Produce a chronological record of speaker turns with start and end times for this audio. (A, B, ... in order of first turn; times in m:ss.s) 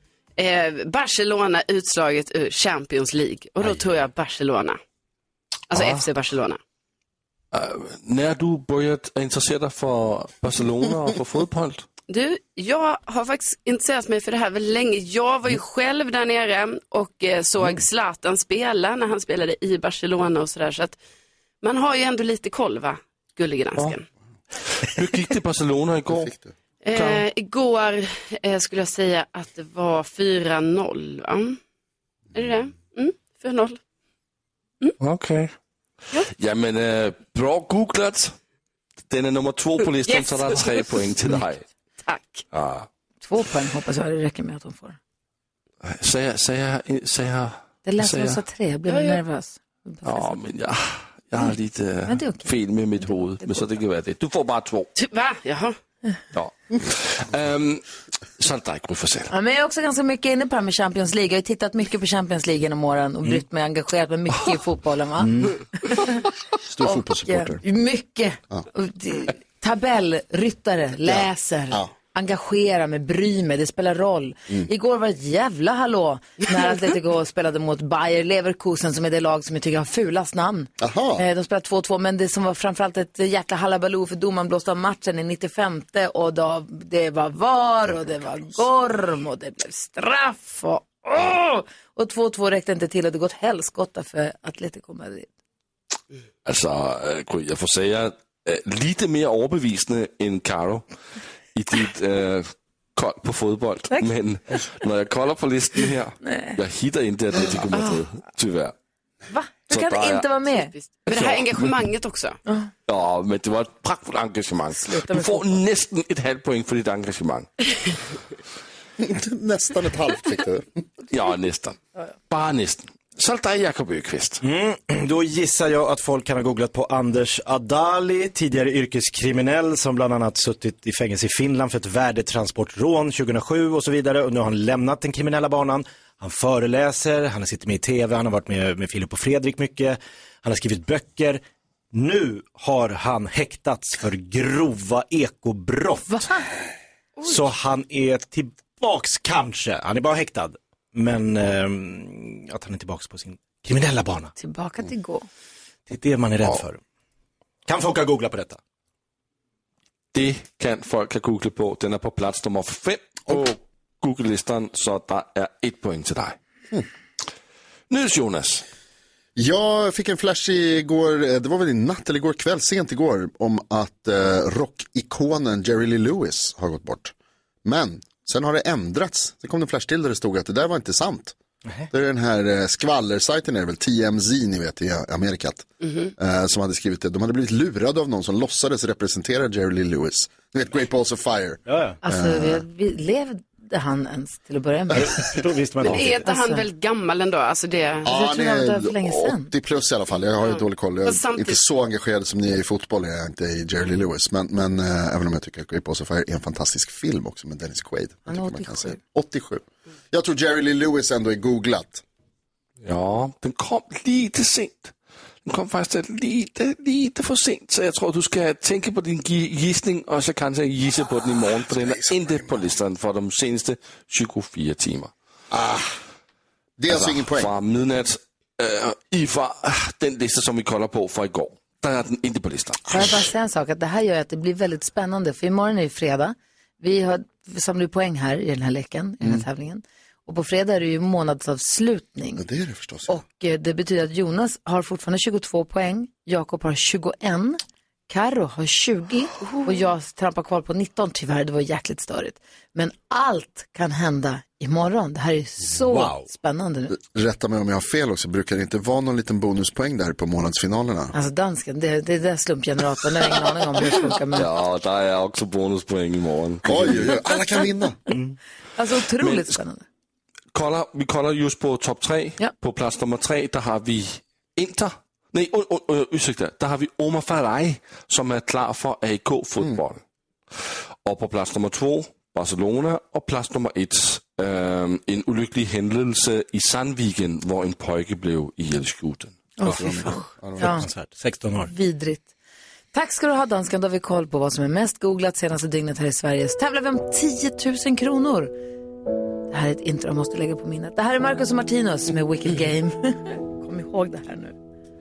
0:00.4-0:04.8 A
0:05.7-0:06.6 A
0:05.7-0:06.0 B
0:07.5-0:11.8 B
0:12.1-0:21.0 A
0:21.6-0:24.0 A
0:24.8-0:26.3 B
0:26.1-0:26.5 C
0:26.8-0:31.6 A
0:26.9-0:27.2 B
0:32.3-0:33.8 A
0:35.0-0:35.5 B
0:36.2-0:38.3 B
0:39.1-0:41.6 B
0:40.0-0:41.4 A
0:42.0-0:42.4 A
0:42.5-0:42.9 B
0:43.2-0:45.0 D
0:45.8-0:48.4 B
0:47.8-0:50.4 D
0:48.9-0:49.2 A
0:50.0-0:54.9 B
0:52.0-0:52.5 D
0:53.0-0:53.6 D
0:55.0-0:55.8 A
0:56.3-0:57.8 B
0:58.4-0:59.3 B
0:59.3-1:05.3 D
1:05.2-1:05.5 E
1:06.7-1:07.6 C
1:06.8-1:35.3 D
1:11.0-1:11.9 C
1:20.8-1:21.2 C
1:36.4-1:40.8 B
1:41.5-1:48.7 B
1:46.2-1:46.6 D
1:49.3-1:50.7 D
1:49.7-1:50.4 B
1:50.7-1:52.4 A
1:51.1-1:51.7 B
1:52.4-1:52.7 D
1:52.9-1:57.5 B
1:54.8-1:55.6 D
1:59.0-2:00.7 C
2:01.1-2:01.8 B
2:02.3-2:04.4 B
2:04.4-2:21.4 E
2:21.9-2:26.3 E
2:27.2-2:34.3 E
2:34.4-2:35.3 D
2:35.9-2:36.8 E
2:37.6-2:38.6 E
2:40.1-2:46.4 B
2:47.9-2:48.6 B
2:49.4-3:01.4 C
3:01.9-3:12.6 C
3:05.8-3:06.1 A
3:11.7-3:12.0 E
3:12.0-3:15.3 D
3:14.9-3:16.2 E
3:15.8-3:16.6 D
3:15.8-3:18.1 A
3:18.0-3:32.0 C
3:18.0-3:19.5 D
3:20.4-3:21.6 A
3:28.3-3:29.0 D
3:32.8-3:34.9 B
3:35.4-3:45.1 B
3:41.4-3:42.7 C
3:45.5-3:45.9 C
3:46.8-3:47.5 C
3:46.9-3:53.0 B
3:52.9-4:02.4 D
4:02.4-4:03.2 C
4:03.1-4:16.9 D
4:15.6-4:16.2 E
4:16.9-4:21.1 C
4:21.1-4:24.5 D
4:24.3-4:27.2 B
4:26.6-4:28.0 C
4:28.8-4:29.8 D
4:29.2-4:29.6 B
4:30.5-4:40.0 B
4:41.0-4:49.6 B
4:49.6-4:50.8 D
4:49.6-4:51.7 E
4:49.7-4:50.8 C
4:51.6-4:52.3 D
4:52.9-4:58.5 D
4:59.5-5:04.5 D